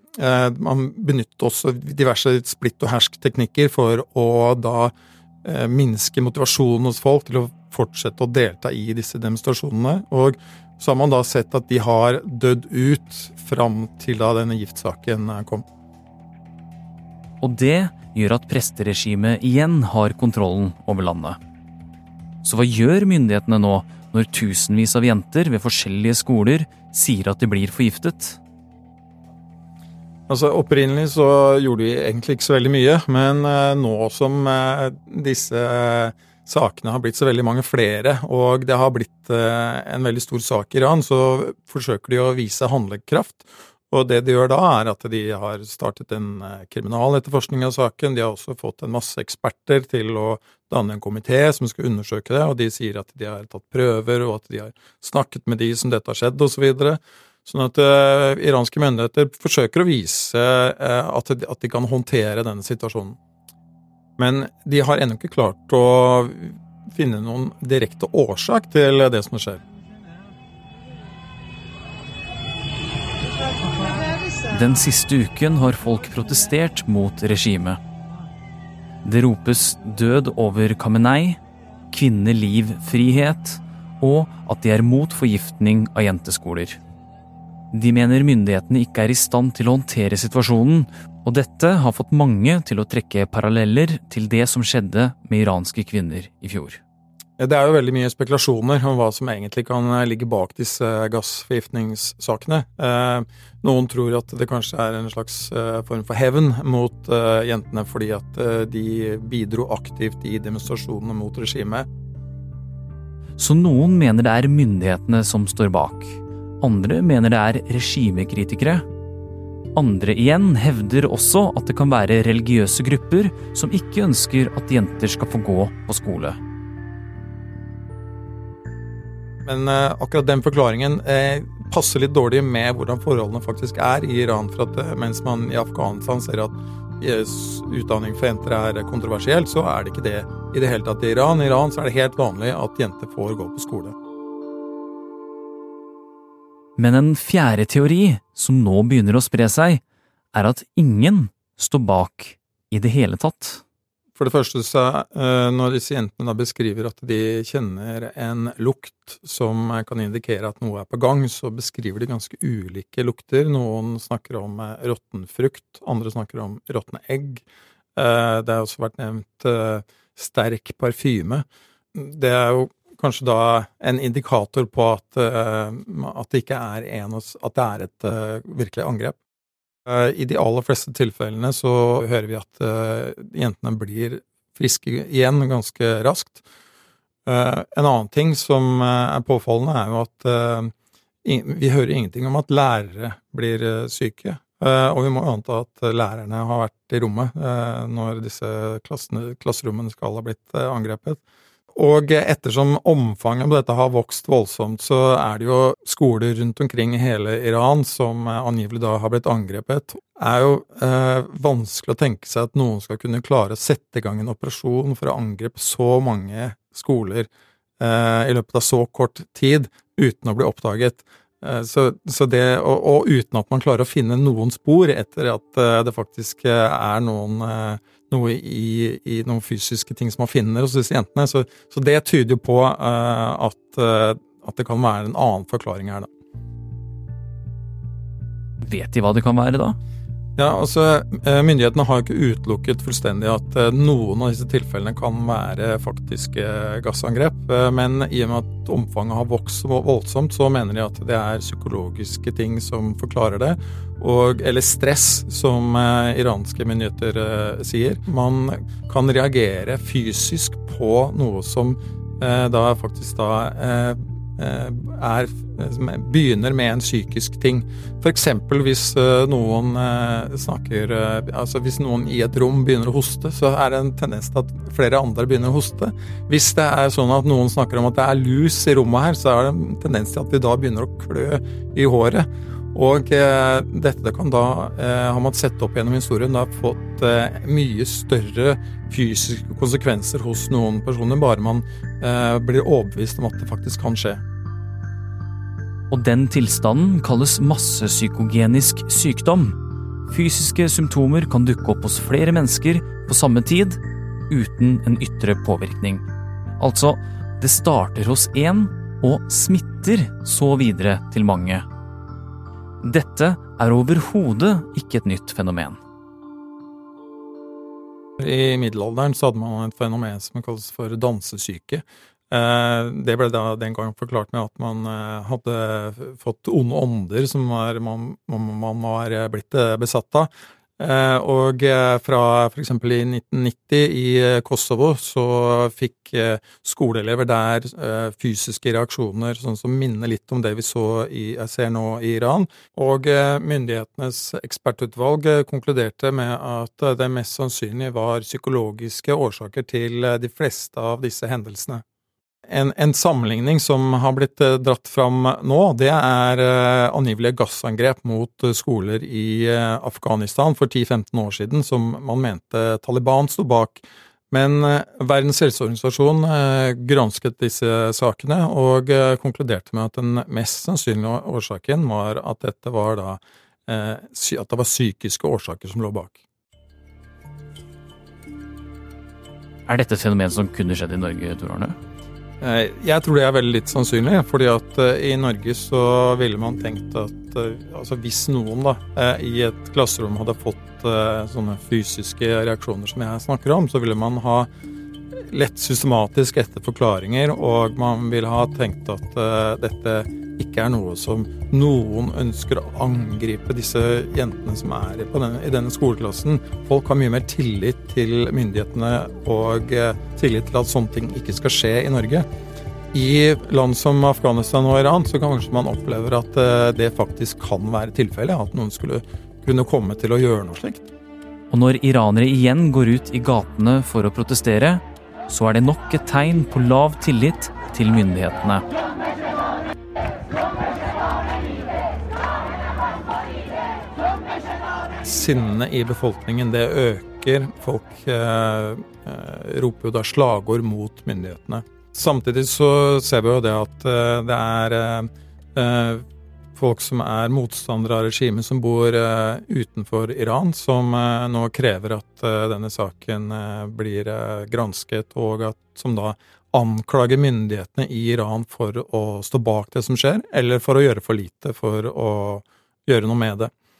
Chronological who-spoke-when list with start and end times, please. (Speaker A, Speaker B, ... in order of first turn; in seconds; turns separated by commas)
Speaker A: 0.2-4.9, Speaker A: 5.4-15.7, Speaker B: 17.4-21.4, Speaker B: 22.4-28.4, Speaker A: 30.3-63.2, Speaker A: 64.2-69.6, Speaker B: 74.5-77.8, Speaker B: 79.0-81.4, Speaker B: 81.9-86.8, Speaker B: 87.7-96.8, Speaker A: 97.4-111.9, Speaker B: 113.4-118.8, Speaker B: 119.7-126.4, Speaker A: 129.4-143.9, Speaker B: 146.8-149.8, Speaker B: 150.3-153.6, Speaker A: 154.2-167.4, Speaker A: 167.9-179.2, Speaker A: 179.9-186.4, Speaker A: 187.2-190.7, Speaker A: 191.2-201.2, Speaker A: 201.7-236.1, Speaker B: 238.6-239.8, Speaker A: 240.4-294.2, Speaker B: 295.9-306.0, Speaker B: 306.6-311.6, Speaker B: 312.8-315.8, Speaker A: 318.2-351.8, Speaker A: 352.5-376.2, Speaker B: 379.7-381.8, Speaker A: 382.4-394.5, Speaker A: 395.3-412.3, Speaker A: 412.9-420.9, Speaker B: 421.5-428.6, Speaker A: 435.0-463.5